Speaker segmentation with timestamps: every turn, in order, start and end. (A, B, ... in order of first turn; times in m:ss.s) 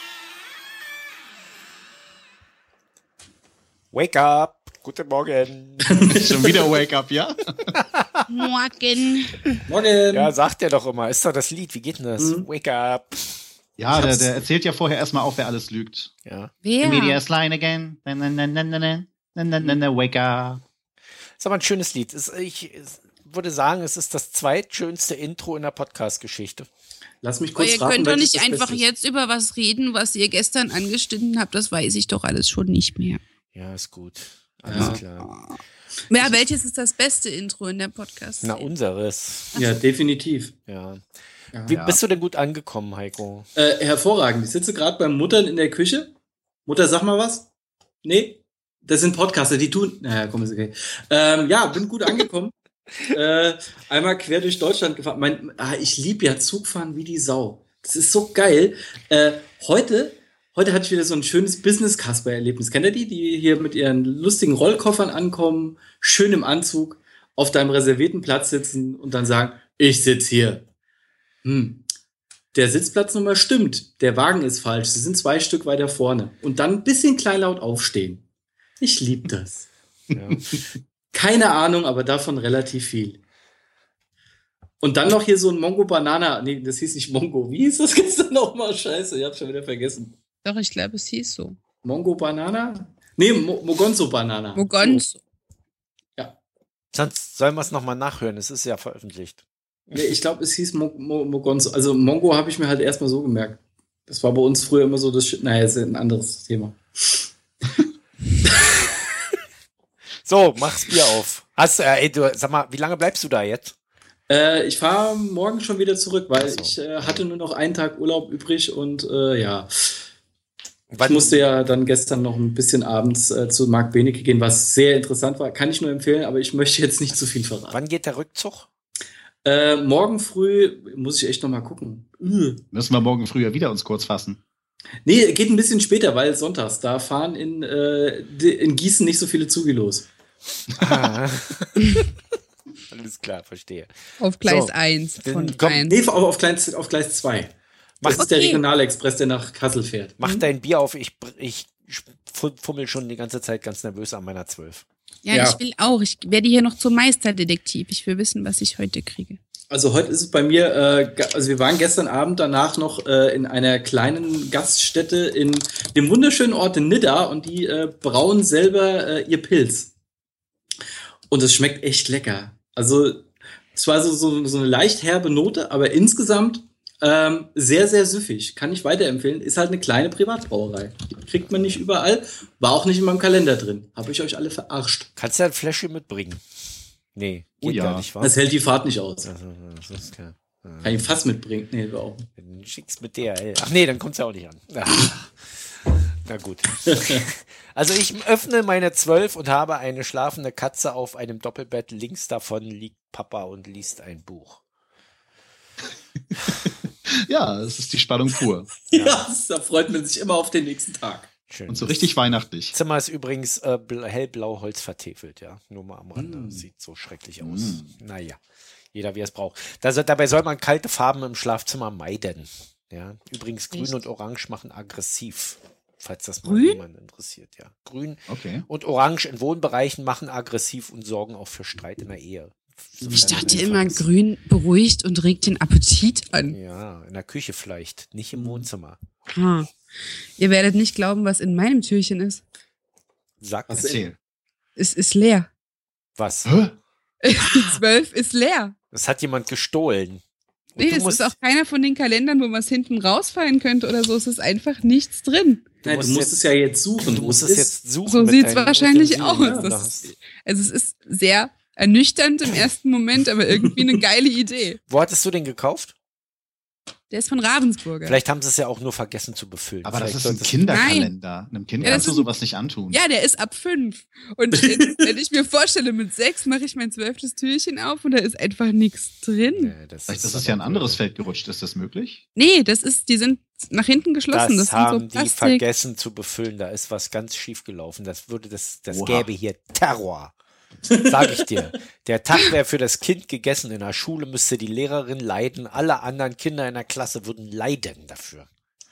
0:03.9-0:05.9 A
0:06.0-0:06.7 B
0:06.2-0:07.4 C
0:08.3-0:09.4 D
0:09.7-0:10.3 B
0:10.1-0:13.4 A
0:12.2-0:12.5 B
0:13.8-0:16.1 C
0:13.9-0:14.3 D
0:16.2-0:16.5 A
0:16.6-0:17.2 D
0:16.8-0:20.6 C
0:21.4-0:26.7 A
0:27.2-0:28.9 B
0:27.6-0:33.2 D
0:33.5-0:35.3 A
0:34.6-0:35.0 B
0:34.8-0:35.6 D
0:36.1-0:38.7 D
0:38.4-0:39.6 A
0:39.5-0:40.5 B
0:40.7-0:41.0 A
0:41.5-0:41.8 B
0:41.6-0:43.5 A
0:41.7-0:42.0 C
0:43.6-0:46.1 B
0:46.6-0:47.5 B
0:48.0-0:52.5 B
0:53.1-1:10.6 B
1:11.4-1:11.8 B
1:12.5-1:18.2 B
1:18.8-1:19.7 B
1:20.1-1:20.4 A
1:21.1-1:23.2 B
1:24.8-1:30.2 B
1:30.4-1:31.6 D
1:31.8-1:35.0 B
1:34.6-1:35.2 D
1:36.9-1:40.1 A
1:39.9-1:47.3 B
1:50.2-1:53.8 A
1:54.3-1:59.9 B
1:56.3-1:57.2 A
2:00.9-2:01.5 A
2:01.0-2:07.8 B
2:07.7-2:08.7 A
2:09.4-2:12.6 B
2:12.7-2:14.4 C
2:15.0-2:20.1 B
2:20.8-2:22.0 A
2:20.8-2:21.1 C
2:22.9-2:25.9 A
2:24.2-2:26.0 D
2:25.8-2:30.4 B
2:28.0-2:28.3 A
2:28.1-2:28.6 D
2:30.2-2:34.8 A
2:35.2-2:39.4 D
2:35.3-2:35.6 B
2:39.7-2:49.9 B
2:51.3-3:05.1 B
3:01.4-3:01.8 A
3:05.2-3:06.4 A
3:07.1-3:08.3 A
3:07.6-3:08.1 C
3:08.2-3:09.3 B
3:09.2-3:11.1 A
3:10.8-3:12.3 B
3:12.4-3:24.6 A
3:27.2-3:28.7 C
3:28.9-3:31.3 B
3:28.9-3:29.2 A
3:31.5-3:32.1 A
3:31.7-3:32.7 C
3:32.7-3:38.4 A
3:36.2-3:36.6 B
3:37.4-3:37.9 C
3:38.9-3:54.1 A
3:43.7-3:44.0 D
3:46.4-3:46.8 D
3:48.3-3:48.6 C
3:53.0-3:53.6 B
3:53.2-3:56.6 D
3:56.5-3:59.0 A
3:58.3-3:58.7 B
3:59.3-3:59.7 D
4:00.4-4:02.4 D
4:03.4-4:04.0 A
4:03.7-4:04.1 B
4:03.8-4:04.1 C
4:04.8-4:05.5 D
4:06.2-4:06.6 A
4:06.4-4:06.7 C
4:07.2-4:08.7 D
4:07.4-4:07.8 B
4:08.9-4:10.2 A
4:10.7-4:11.3 A
4:10.8-4:15.6 D
4:15.8-4:16.3 A
4:15.8-4:17.8 B
4:17.0-4:20.1 A
4:18.0-4:24.8 D
4:19.4-4:19.7 B
4:24.9-4:25.9 A
4:27.1-4:28.2 D
4:28.0-4:30.9 A
4:29.8-4:33.0 C
4:30.7-4:31.1 D
4:31.8-4:32.3 D
4:32.9-4:39.7 D
4:34.5-4:35.1 B
4:39.5-4:41.0 A
4:40.1-4:42.2 C
4:42.4-4:45.6 D
4:44.3-4:50.3 A
4:48.9-4:49.3 C
4:51.0-4:58.5 A